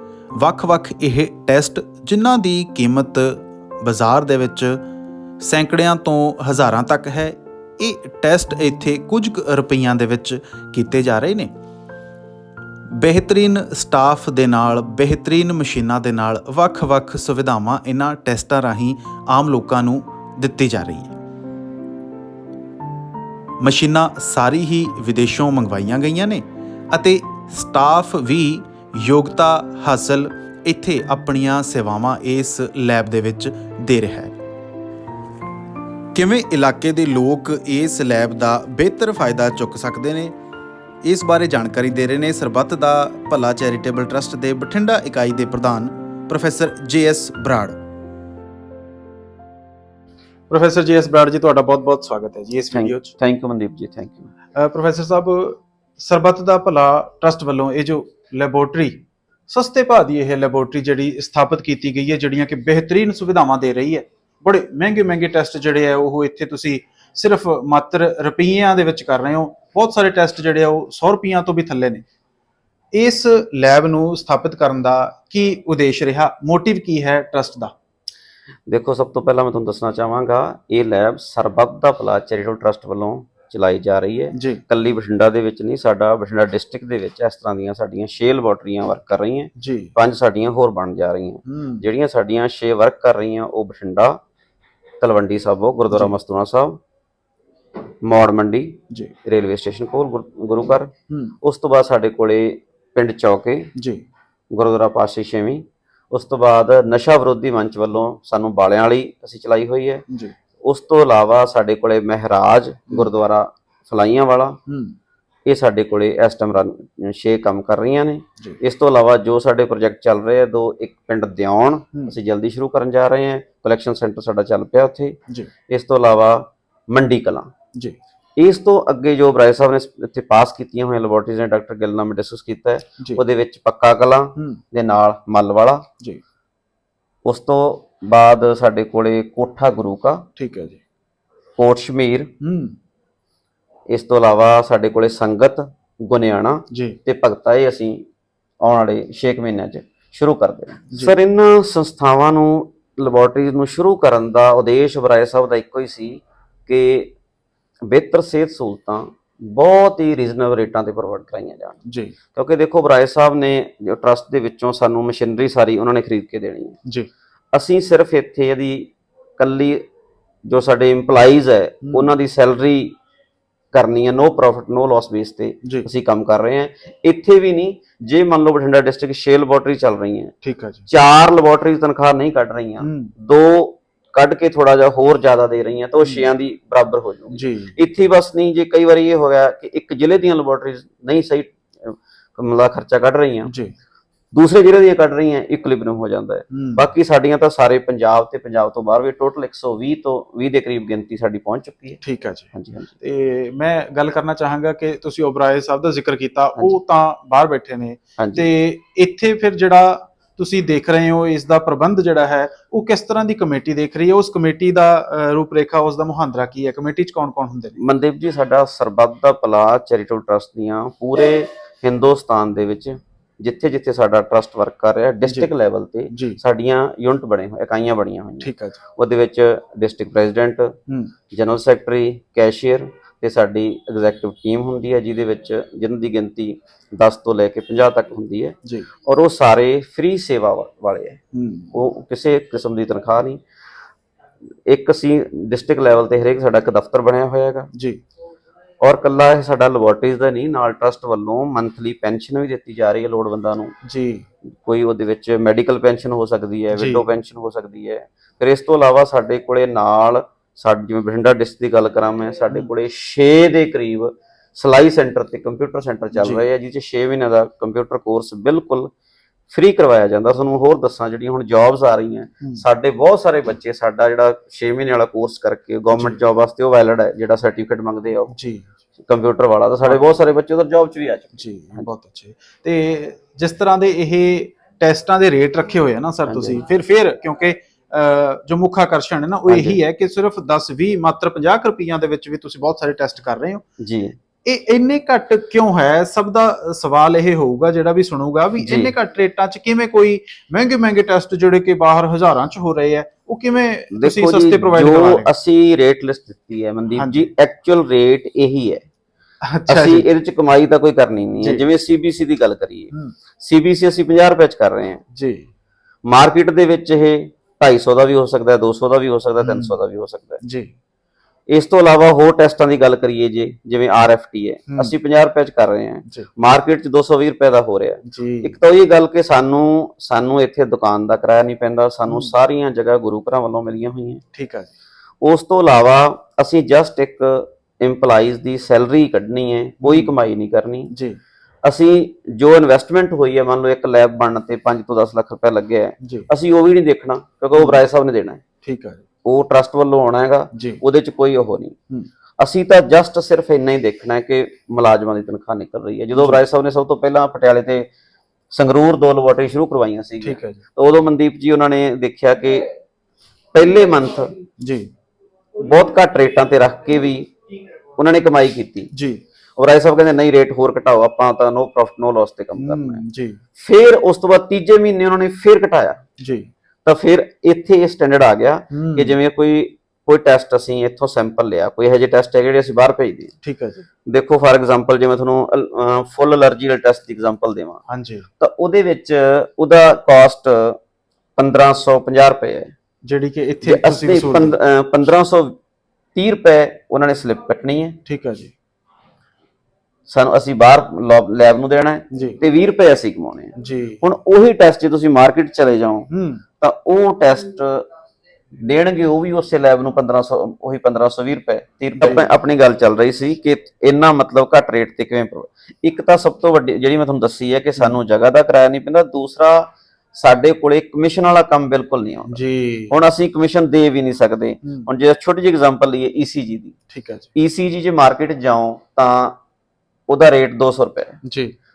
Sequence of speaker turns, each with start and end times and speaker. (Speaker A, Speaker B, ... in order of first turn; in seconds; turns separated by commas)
Speaker A: 0.3-4.8, Speaker A: 5.4-11.5, Speaker A: 12.9-21.1, Speaker A: 23.6-34.3, Speaker A: 36.1-40.3, Speaker A: 41.0-47.8, Speaker A: 50.5-53.1, Speaker B: 52.7-54.3, Speaker A: 54.5-72.0, Speaker A: 72.9-77.7, Speaker B: 78.7-94.2, Speaker A: 84.3-84.6, Speaker A: 89.5-89.9, Speaker A: 91.5-91.8, Speaker B: 95.0-96.8, Speaker B: 98.0-100.9, Speaker A: 101.1-101.3, Speaker B: 101.4-103.7, Speaker A: 103.7-104.0, Speaker B: 104.5-110.0, Speaker A: 110.1-110.3, Speaker B: 110.7-114.6, Speaker A: 114.7-115.0, Speaker B: 115.5-125.2, Speaker B: 125.7-127.5, Speaker B: 128.4-135.8, Speaker A: 134.3-134.6, Speaker B: 137.2-140.2, Speaker A: 140.3-140.8, Speaker B: 141.6-142.3, Speaker A: 142.4-142.8, Speaker B: 143.9-148.0, Speaker A: 146.7-147.0, Speaker B: 148.6-157.1, Speaker A: 150.9-151.2, Speaker B: 157.9-161.8, Speaker A: 161.8-162.1, Speaker B: 162.3-166.8, Speaker B: 167.5-169.8, Speaker B: 170.4-172.9, Speaker A: 171.8-172.1, Speaker B: 173.7-180.3, Speaker A: 175.6-175.9, Speaker A: 180.4-180.9, Speaker B: 180.9-193.5, Speaker A: 182.8-183.1, Speaker A: 186.0-186.3, Speaker A: 187.3-187.8, Speaker A: 193.4-193.7, Speaker B: 194.3-202.0, Speaker A: 196.5-196.9, Speaker A: 202.0-217.8, Speaker B: 202.5-202.9, Speaker B: 208.2-208.4, Speaker B: 217.8-230.7, Speaker A: 225.2-225.5, Speaker A: 226.1-226.4, Speaker A: 228.4-228.8, Speaker A: 230.9-231.1, Speaker B: 231.3-241.2, Speaker A: 241.3-241.7, Speaker B: 241.7-243.4, Speaker B: 244.7-247.7, Speaker A: 247.7-248.0, Speaker B: 248.8-253.7, Speaker A: 253.8-254.2, Speaker B: 254.5-268.9, Speaker A: 256.7-257.1, Speaker A: 266.1-266.4, Speaker B: 269.5-278.3, Speaker A: 275.9-276.2, Speaker A: 278.3-278.7, Speaker B: 279.1-281.9, Speaker A: 281.4-293.6, Speaker B: 286.3-286.6, Speaker B: 289.5-289.8, Speaker B: 293.8-294.1, Speaker A: 294.4-305.3, Speaker B: 298.6-298.9, Speaker B: 303.9-308.8, Speaker A: 306.9-307.3, Speaker A: 309.4-310.1, Speaker B: 309.7-315.0, Speaker A: 311.4-311.7, Speaker A: 315.1-315.5, Speaker B: 316.1-320.4, Speaker A: 319.4-319.8, Speaker A: 320.4-320.7, Speaker B: 321.5-334.2, Speaker A: 324.7-324.9, Speaker A: 326.0-326.3, Speaker A: 328.1-328.5, Speaker A: 332.1-332.3, Speaker A: 334.3-334.7, Speaker B: 335.2-340.9, Speaker A: 339.8-340.1, Speaker A: 340.9-341.2, Speaker B: 341.6-348.4, Speaker A: 346.0-346.3, Speaker A: 347.5-347.8, Speaker A: 348.6-349.0, Speaker B: 349.2-351.8, Speaker A: 350.5-350.8, Speaker B: 352.4-357.9, Speaker A: 356.1-356.4, Speaker B: 358.5-362.6, Speaker A: 360.2-360.6, Speaker B: 363.5-364.3, Speaker A: 364.6-364.9, Speaker B: 365.6-367.3, Speaker B: 368.0-368.9, Speaker A: 368.9-369.2, Speaker B: 369.6-373.0, Speaker A: 372.6-373.4, Speaker B: 373.6-376.0, Speaker A: 376.2-376.5, Speaker B: 376.8-383.3, Speaker A: 378.7-379.2, Speaker A: 383.4-383.9, Speaker B: 384.1-387.8, Speaker A: 387.9-388.3, Speaker B: 388.4-390.8, Speaker B: 391.4-392.7, Speaker A: 393.0-394.6, Speaker B: 393.6-395.6, Speaker B: 396.1-398.0, Speaker A: 398.0-398.5, Speaker B: 400.1-406.1, Speaker A: 402.1-402.4, Speaker A: 403.6-404.0, Speaker A: 406.1-406.4, Speaker B: 406.6-407.8, Speaker B: 408.6-422.4, Speaker A: 411.9-412.3, Speaker A: 422.3-422.9, Speaker B: 422.9-426.8, Speaker A: 424.6-424.9, Speaker A: 426.9-427.3, Speaker B: 427.3-429.4, Speaker B: 430.1-431.2, Speaker A: 431.2-431.5